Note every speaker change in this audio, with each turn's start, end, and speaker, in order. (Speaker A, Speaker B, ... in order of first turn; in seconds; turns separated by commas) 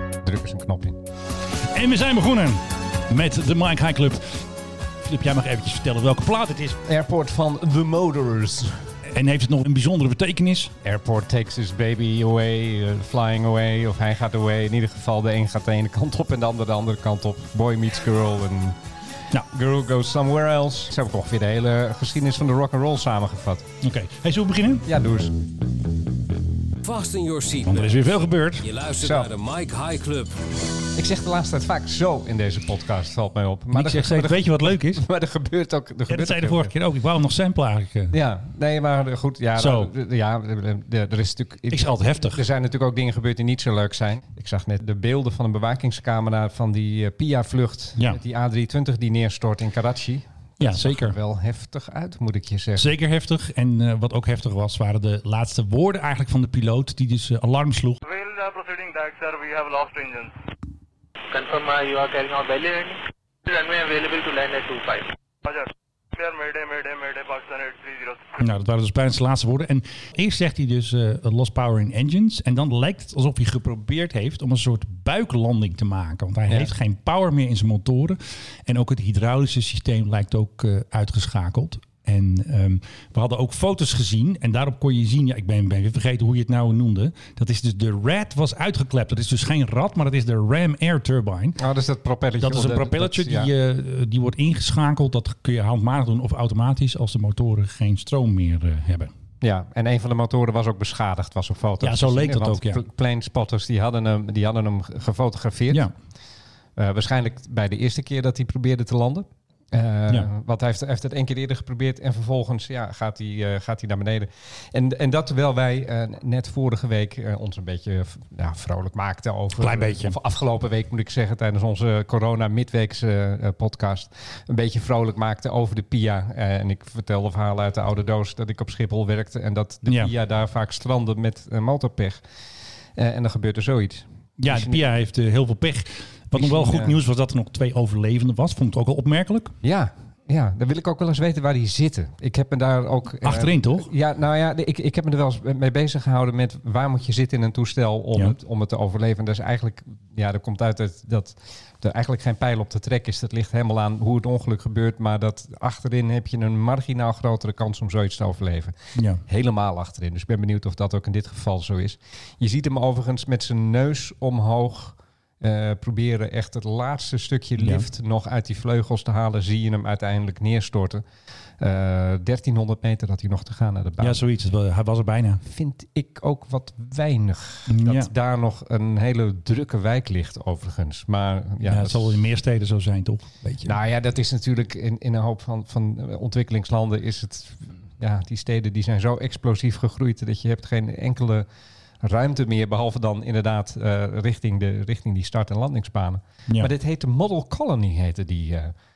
Speaker A: 0.2-1.0, Speaker B: 1.7-4.4, Speaker B: 5.0-6.8, Speaker A: 6.9-8.8, Speaker B: 9.1-10.7, Speaker A: 10.8-18.8, Speaker A: 19.5-23.7, Speaker B: 23.8-24.9, Speaker A: 24.9-25.4, Speaker C: 26.8-28.0, Speaker B: 27.7-28.7, Speaker C: 28.6-30.4, Speaker A: 29.0-29.3, Speaker A: 31.0-36.7, Speaker B: 33.7-35.0, Speaker B: 36.1-38.1, Speaker A: 38.1-52.9, Speaker B: 39.6-39.9, Speaker B: 41.7-42.4, Speaker B: 50.6-51.2, Speaker B: 52.8-58.0, Speaker D: 58.0-60.3, Speaker E: 61.3-65.1, Speaker D: 65.4-68.3, Speaker B: 68.4-91.6, Speaker A: 91.6-93.5, Speaker B: 92.4-99.1, Speaker A: 99.4-105.9, Speaker B: 101.8-102.8, Speaker A: 106.8-132.2, Speaker B: 119.6-120.2, Speaker A: 133.0-134.8, Speaker B: 134.4-139.5, Speaker A: 136.3-137.0, Speaker A: 139.6-171.0, Speaker B: 143.2-143.9, Speaker B: 159.0-159.2, Speaker B: 167.6-167.9, Speaker A: 171.6-174.2, Speaker B: 174.0-175.4, Speaker A: 175.4-182.2, Speaker B: 177.7-178.1, Speaker B: 181.6-183.7, Speaker A: 183.7-191.5, Speaker A: 192.0-198.7